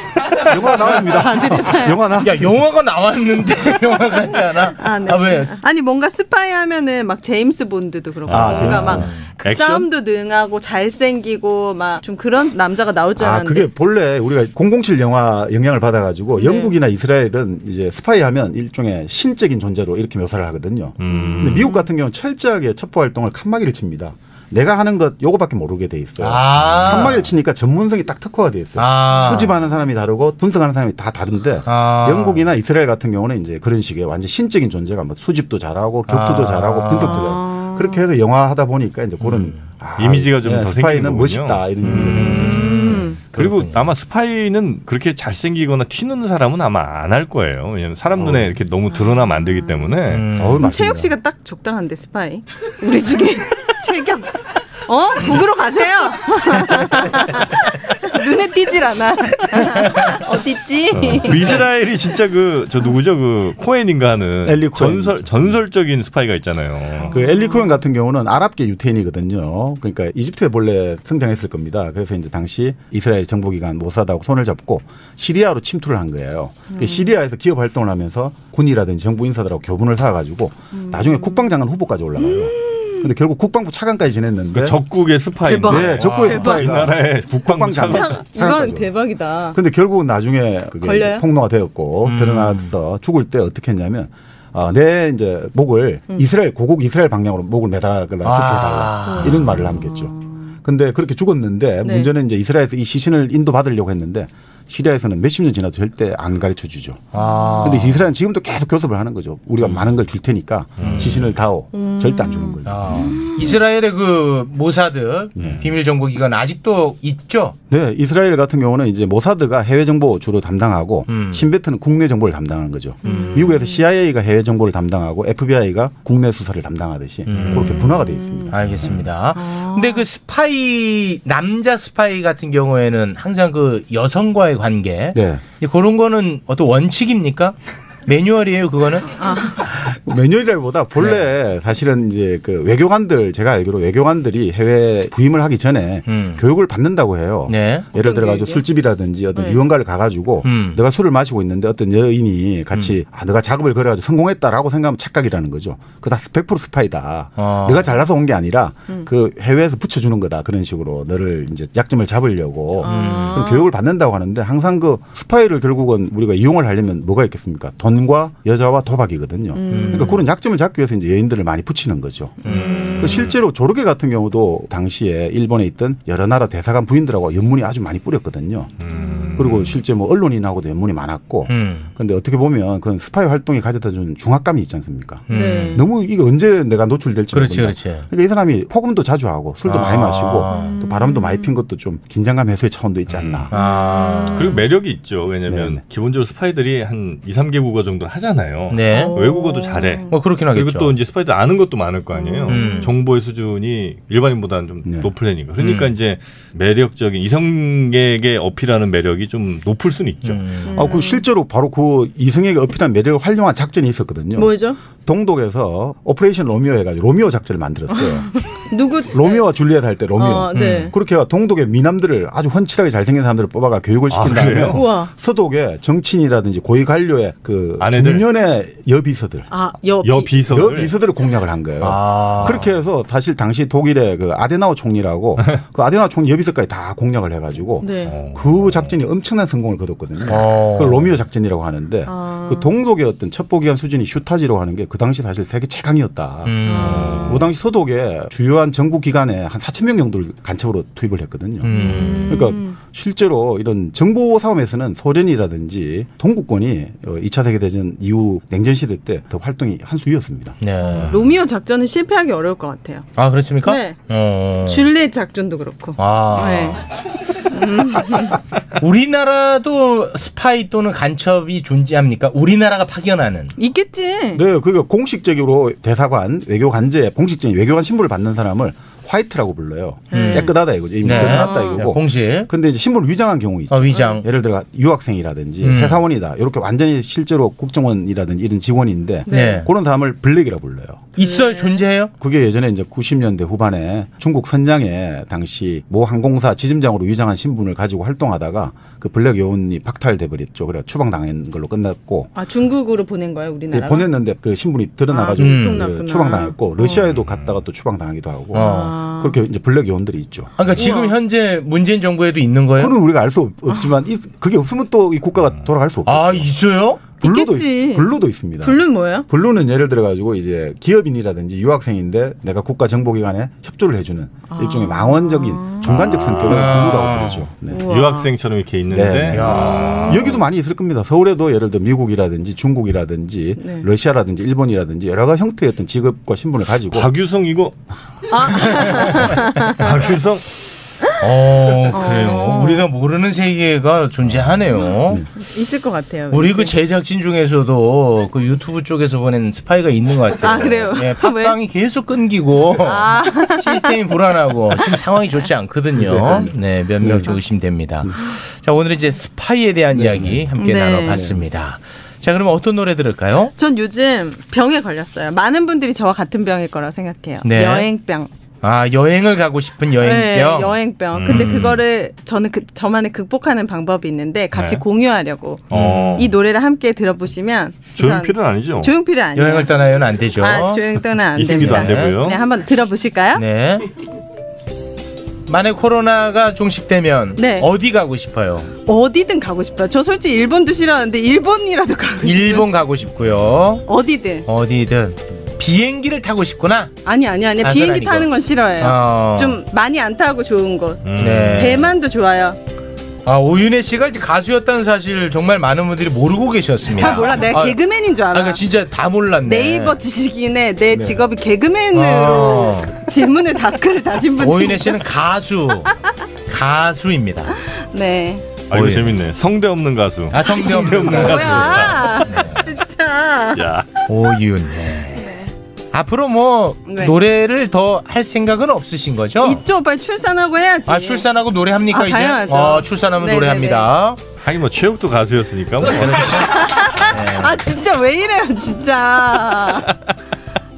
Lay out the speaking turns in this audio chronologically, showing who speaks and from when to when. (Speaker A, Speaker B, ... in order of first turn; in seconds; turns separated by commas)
Speaker A: 0.3-2.6, Speaker B: 0.5-2.1, Speaker C: 2.2-5.5, Speaker B: 4.7-13.7, Speaker D: 8.3-9.9, Speaker A: 8.3-9.0, Speaker C: 8.4-9.3, Speaker A: 13.2-43.1, Speaker B: 16.4-16.7, Speaker D: 21.0-21.7, Speaker B: 21.1-21.9, Speaker C: 26.2-27.3, Speaker D: 26.6-27.2, Speaker C: 28.8-29.5, Speaker B: 29.1-29.8, Speaker C: 31.6-32.5, Speaker C: 36.1-37.3, Speaker B: 36.9-38.1, Speaker C: 39.2-39.6, Speaker D: 40.0-41.7, Speaker C: 41.8-43.9, Speaker B: 42.2-43.2, Speaker D: 43.3-50.3, Speaker A: 48.1-48.6, Speaker B: 48.9-49.9, Speaker C: 50.1-50.7, Speaker A: 50.3-51.2, Speaker B: 50.6-54.3, Speaker B: 54.9-61.6, Speaker D: 60.9-67.2, Speaker A: 64.4-65.5, Speaker B: 67.1-67.7, Speaker A: 67.1-84.8, Speaker B: 76.7-77.1, Speaker B: 80.7-81.5, Speaker B: 82.2-83.1, Speaker D: 84.5-88.3, Speaker B: 85.4-86.6, Speaker A: 85.7-88.9, Speaker C: 85.9-86.6, Speaker B: 87.8-89.6, Speaker A: 89.5-107.1, Speaker B: 90.8-91.2, Speaker C: 92.0-92.7, Speaker C: 98.2-99.6, Speaker B: 99.0-100.5, Speaker B: 101.8-102.1, Speaker C: 107.1-108.1, Speaker A: 107.6-113.1, Speaker D: 110.8-111.3, Speaker C: 110.8-111.3, Speaker B: 111.7-113.5, Speaker C: 112.6-117.5, Speaker A: 115.3-115.6, Speaker D: 115.4-115.6, Speaker A: 117.7-129.0, Speaker C: 121.1-121.4, Speaker B: 123.0-123.8, Speaker C: 123.0-123.4, Speaker C: 127.2-127.9, Speaker D: 127.3-128.0, Speaker B: 127.8-128.5, Speaker C: 128.5-139.1, Speaker B: 129.3-130.0, Speaker A: 135.1-135.4, Speaker B: 139.1-139.7, Speaker A: 139.6-172.4, Speaker C: 141.0-141.2, Speaker C: 146.1-146.4, Speaker C: 147.5-147.8, Speaker B: 147.9-148.6, Speaker B: 149.3-149.6, Speaker C: 150.4-150.8, Speaker C: 157.4-157.9, Speaker B: 162.8-163.7, Speaker C: 162.8-163.4, Speaker B: 169.5-170.2, Speaker C: 169.7-170.2, Speaker C: 172.4-173.2, Speaker B: 172.4-173.1, Speaker D: 172.7-173.4, Speaker A: 173.0-178.7, Speaker D: 178.8-179.8, Speaker A: 179.4-193.5, Speaker C: 181.5-181.9, Speaker C: 185.3-185.8, Speaker B: 185.3-185.8, Speaker C: 187.3-188.1, Speaker C: 189.7-190.8, Speaker B: 190.4-191.6, Speaker D: 193.1-193.5, Speaker C: 193.5-194.6, Speaker B: 193.5-194.7, Speaker D: 194.3-210.7, Speaker A: 195.4-195.8, Speaker C: 198.7-199.2, Speaker B: 198.9-200.2, Speaker C: 200.1-200.9, Speaker B: 202.1-202.9, Speaker C: 202.5-202.9, Speaker A: 204.8-205.1, Speaker C: 205.6-205.9, Speaker C: 210.2-211.0, Speaker B: 210.7-211.2, Speaker A: 210.7-218.4, Speaker B: 214.3-214.8, Speaker B: 217.9-219.5, Speaker A: 219.1-229.5, Speaker B: 220.2-220.9, Speaker C: 220.5-220.9, Speaker D: 224.1-224.9, Speaker B: 224.7-225.1, Speaker D: 227.8-228.3, Speaker B: 229.5-230.5, Speaker D: 229.8-231.0, Speaker A: 230.4-246.6, Speaker C: 231.8-232.7, Speaker D: 232.2-232.7, Speaker B: 237.8-238.2, Speaker D: 238.0-238.9, Speaker C: 240.3-241.1, Speaker B: 242.1-242.7, Speaker C: 246.4-247.3, Speaker B: 246.7-247.3, Speaker D: 246.8-247.5, Speaker A: 247.1-251.7, Speaker C: 251.6-252.4, Speaker B: 251.7-252.8, Speaker A: 252.3-260.6, Speaker C: 260.6-261.2, Speaker B: 260.9-263.1, Speaker D: 260.9-261.2, Speaker C: 263.1-264.9, Speaker B: 263.6-264.0, Speaker B: 264.6-266.9, Speaker C: 266.0-266.9, Speaker B: 267.5-268.4, Speaker C: 268.8-273.5, Speaker B: 273.6-274.4, Speaker A: 274.3-291.2, Speaker B: 280.1-281.8, Speaker C: 280.1-280.5, Speaker C: 281.0-282.5, Speaker C: 283.7-284.2, Speaker C: 285.6-286.0, Speaker B: 289.3-289.6, Speaker C: 289.3-289.7, Speaker B: 291.1-291.8, Speaker C: 291.2-292.1, Speaker A: 292.1-302.3, Speaker B: 302.3-304.1, Speaker A: 303.7-310.5, Speaker B: 305.1-307.1, Speaker C: 305.4-305.9, Speaker D: 306.9-307.6, Speaker C: 308.5-309.0, Speaker B: 308.6-309.4, Speaker C: 310.6-312.9, Speaker B: 310.6-311.1, Speaker A: 312.8-316.5, Speaker D: 315.4-315.7, Speaker C: 316.1-317.0, Speaker A: 317.1-327.9, Speaker B: 317.2-318.1, Speaker B: 318.6-319.3, Speaker B: 324.4-326.2, Speaker D: 325.8-326.7, Speaker C: 326.4-327.5, Speaker B: 327.7-328.3, Speaker D: 327.7-330.4, Speaker A: 328.9-337.1, Speaker C: 329.3-330.2, Speaker B: 333.6-333.9, Speaker D: 336.9-340.6, Speaker B: 338.3-339.9, Speaker C: 338.6-339.3, Speaker C: 341.2-345.2, Speaker B: 341.9-342.9, Speaker B: 344.8-346.7, Speaker C: 346.3-363.5, Speaker B: 350.4-351.6, Speaker B: 352.8-353.9, Speaker A: 356.0-357.3, Speaker A: 359.9-360.5, Speaker B: 360.6-361.2, Speaker A: 361.1-361.4, Speaker B: 363.6-368.3, Speaker C: 367.4-367.9, Speaker C: 368.6-370.7, Speaker B: 370.0-379.7, Speaker D: 371.1-371.5, Speaker C: 371.2-371.8, Speaker D: 374.5-374.8, Speaker D: 375.7-376.3, Speaker C: 375.7-376.2, Speaker D: 377.9-378.9, Speaker C: 379.4-380.8, Speaker B: 380.4-383.4, Speaker D: 381.3-382.4, Speaker C: 381.4-382.2, Speaker C: 383.3-383.9, Speaker C: 385.5-388.7, Speaker B: 387.4-387.7, Speaker B: 388.9-392.7, Speaker C: 392.2-393.9, Speaker B: 393.9-394.4, Speaker C: 394.4-396.9, Speaker B: 397.1-402.6, Speaker C: 397.6-399.6, Speaker D: 401.0-401.8, Speaker C: 401.2-401.9, Speaker C: 403.2-407.8, Speaker B: 406.9-408.6, Speaker C: 408.3-410.0, Speaker B: 409.4-415.0, Speaker A: 410.9-411.2, Speaker C: 411.9-412.9, Speaker C: 414.4-415.9, Speaker C: 416.5-417.6, Speaker B: 417.8-418.4, Speaker D: 418.7-422.2, Speaker C: 418.7-419.2, Speaker C: 420.3-422.6, Speaker B: 420.6-423.6, Speaker D: 423.5-424.1, Speaker C: 424.1-425.3, Speaker B: 425.1-425.5, Speaker C: 425.9-429.6, Speaker B: 426.9-427.1, Speaker B: 429.4-431.2, Speaker C: 430.9-434.2, Speaker B: 431.9-433.9, Speaker D: 434.4-436.5, Speaker C: 435.9-437.6, Speaker B: 436.4-439.9